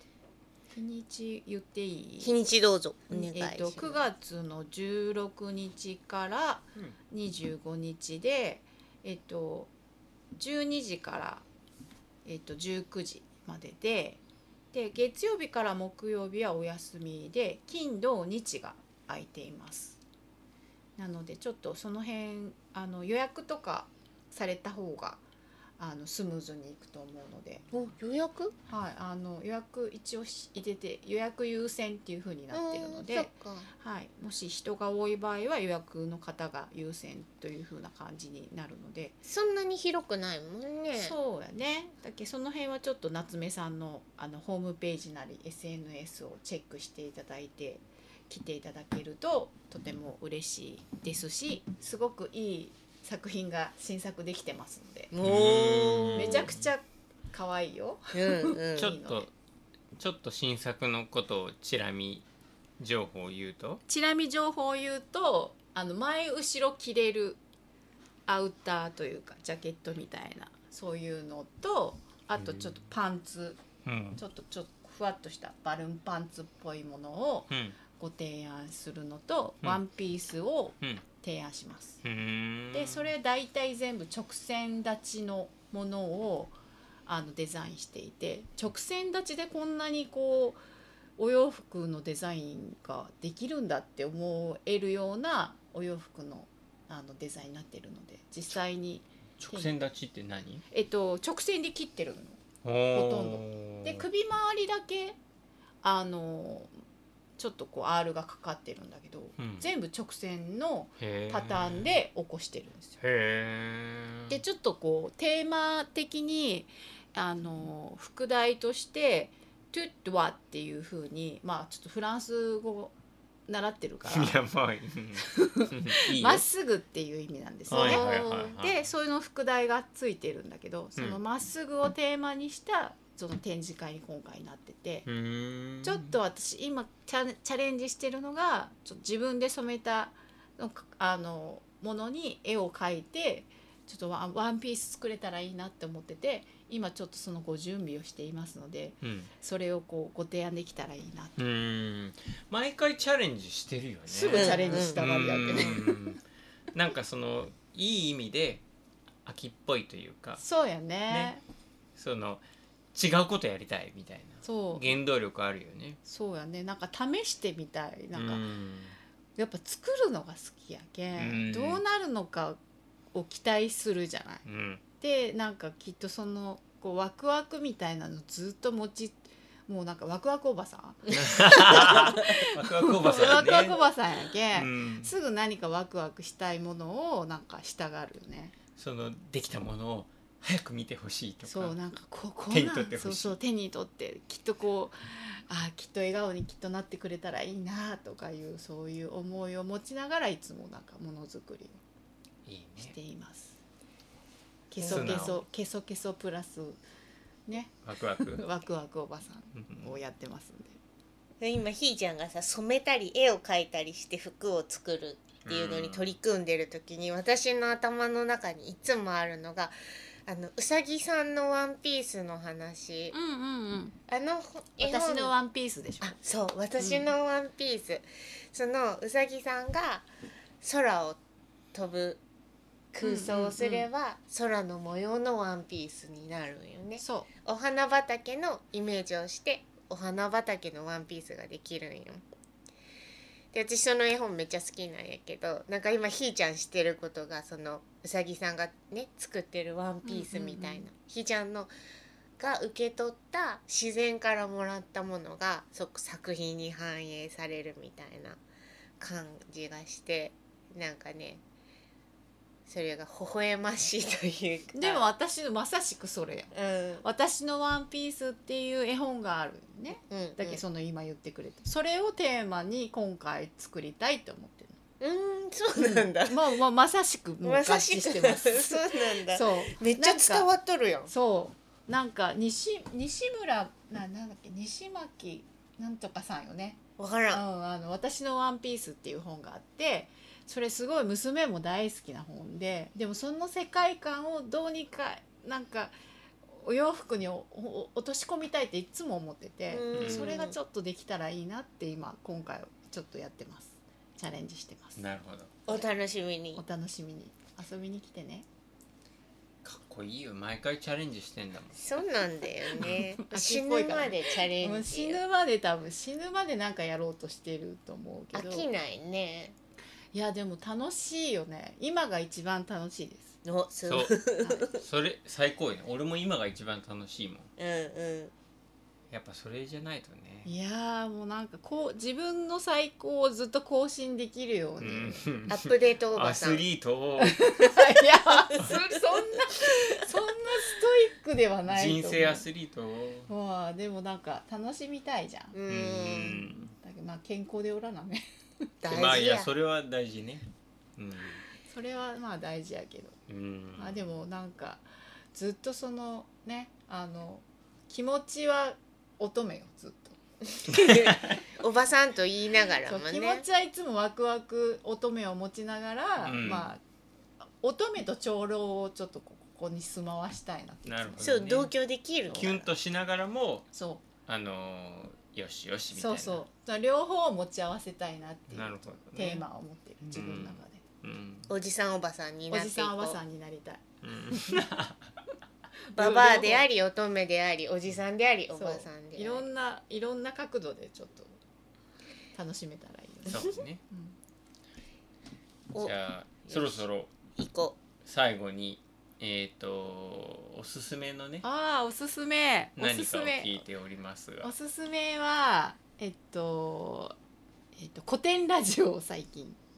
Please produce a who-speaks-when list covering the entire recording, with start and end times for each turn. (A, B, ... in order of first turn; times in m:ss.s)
0:00.7-0:02.4 A
0:02.2-0:04.0 B
0:03.1-0:09.7 A
0:10.4-0:11.4 A
0:12.2-0:14.2 A
0:14.7-0:20.0 A
0:21.0-0:25.2 A
0:25.8-0:27.7 A
0:27.7-0:28.5 B
0:28.7-0:39.2 A
0:32.5-0:33.7 B
0:39.3-0:41.2 B
0:41.0-0:55.1 A
0:55.1-0:56.5 B
0:55.2-0:56.7 C
0:56.2-0:59.3 A
0:58.1-0:59.0 B
0:58.8-0:59.3 C
1:00.0-1:02.3 C
1:02.8-1:03.8 C
1:03.9-1:07.4 A
1:08.3-1:13.6 A
1:12.4-1:12.8 C
1:13.8-1:14.2 C
1:14.2-1:22.0 A
1:17.5-1:17.8 C
1:22.0-1:23.1 C
1:22.7-1:30.6 A
1:31.2-1:39.7 A
1:39.4-1:40.6 C
1:40.7-1:42.4 A
1:42.6-1:44.1 C
1:42.9-1:45.2 A
1:45.8-1:46.7 A
1:47.4-1:53.0 A
1:49.4-1:49.7 C
1:51.0-1:51.9 C
1:53.0-1:54.4 C
1:54.3-2:03.0 A
2:03.5-2:04.4 A
2:04.0-2:06.4 C
2:05.2-2:15.1 A
2:07.7-2:08.8 C
2:07.7-2:08.6 B
2:15.1-2:16.2 C
2:15.8-2:31.4 A
2:29.0-2:29.3 C
2:31.4-2:36.2 C
2:34.1-2:36.0 A
2:34.3-2:35.8 B
2:36.7-2:38.6 C
2:39.2-2:40.4 C
2:40.4-2:41.4 A
2:42.0-2:46.0 C
2:44.4-2:45.0 A
2:46.0-2:48.4 A
2:48.1-2:49.0 C
2:49.4-2:52.6 A
2:51.2-2:51.8 C
2:53.1-2:54.4 A
2:54.5-2:54.8 C
2:55.0-3:08.6 A
3:01.1-3:03.8 C
3:04.5-3:05.1 C
3:08.8-3:11.8 C
3:11.5-3:21.8 A
3:12.5-3:13.4 C
3:22.5-3:23.0 C
3:22.8-3:23.6 A
3:24.7-3:26.8 A
3:24.8-3:25.4 B
3:24.8-3:25.4 C
3:27.5-3:30.8 A
3:27.8-3:28.5 C
3:29.6-3:29.9 C
3:31.4-3:39.7 B
3:35.4-3:36.1 C
3:40.3-3:43.2 B
3:43.1-3:44.0 A
3:44.1-3:45.3 B
3:44.8-3:46.2 A
3:46.0-3:50.1 B
3:46.8-3:47.1 A
3:50.6-3:51.2 B
3:51.7-3:52.2 B
3:52.9-4:02.2 B
3:53.0-3:53.9 A
3:57.0-3:57.3 A
4:03.5-4:11.7 B
4:10.0-4:10.9 A
4:12.4-4:18.4 B
4:19.0-4:21.4 B
4:22.7-4:25.1 B
4:24.7-4:34.8 A
4:26.5-4:27.0 B
4:30.1-4:30.6 B
4:35.0-4:36.6 B
4:35.8-4:40.5 A
4:37.4-4:41.1 B
4:41.1-4:55.9 A
4:47.0-4:47.4 B
4:56.5-5:05.1 A
4:59.7-5:00.6 B
5:00.0-5:00.4 C
5:05.0-5:05.6 C
5:05.7-5:06.6 B
5:06.6-5:08.5 A
5:09.6-5:12.0 C
5:11.8-5:15.2 B
5:12.8-5:13.0 C
5:13.2-5:18.7 A
5:18.3-5:19.6 B
5:20.1-5:23.4 A
5:23.4-5:24.8 B
5:23.9-5:27.5 C
5:27.6-5:28.3 B
5:29.1-5:30.5 C
5:30.4-5:35.3 A
5:34.8-5:37.7 C
5:35.5-5:36.6 B
5:37.2-5:42.5 A
5:41.7-5:43.3 C
5:43.3-5:45.6 A
5:45.5-5:46.5 B
5:45.7-5:46.7 C
5:46.8-5:48.2 A
5:48.8-5:49.5 B
5:48.9-5:51.4 C
5:51.7-5:53.2 A
5:53.3-5:54.0 C
5:53.8-6:00.2 A
6:00.6-6:03.4 B
6:00.7-6:01.4 C
6:02.8-6:06.8 A
6:06.2-6:06.7 C
6:07.6-6:11.5 A
6:10.9-6:11.7 C
6:11.2-6:12.6 B
6:12.3-6:12.7 A
6:12.3-6:13.7 C
6:13.7-6:14.0 A
6:14.3-6:16.4 C
6:15.9-6:20.8 A
6:18.5-6:19.4 C
6:20.1-6:21.5 C
6:21.5-6:23.2 B
6:22.5-6:24.6 A
6:24.0-6:25.1 C
6:25.9-6:26.7 A
6:26.0-6:29.4 B
6:28.6-6:31.3 A
6:32.3-6:34.2 A
6:33.3-6:33.8 C
6:35.8-6:37.1 C
6:36.5-6:36.8 B
6:37.4-6:37.8 B
6:38.0-6:41.4 C
6:41.4-6:43.6 A
6:42.8-6:44.5 C
6:44.4-6:47.2 A
6:47.8-6:49.6 A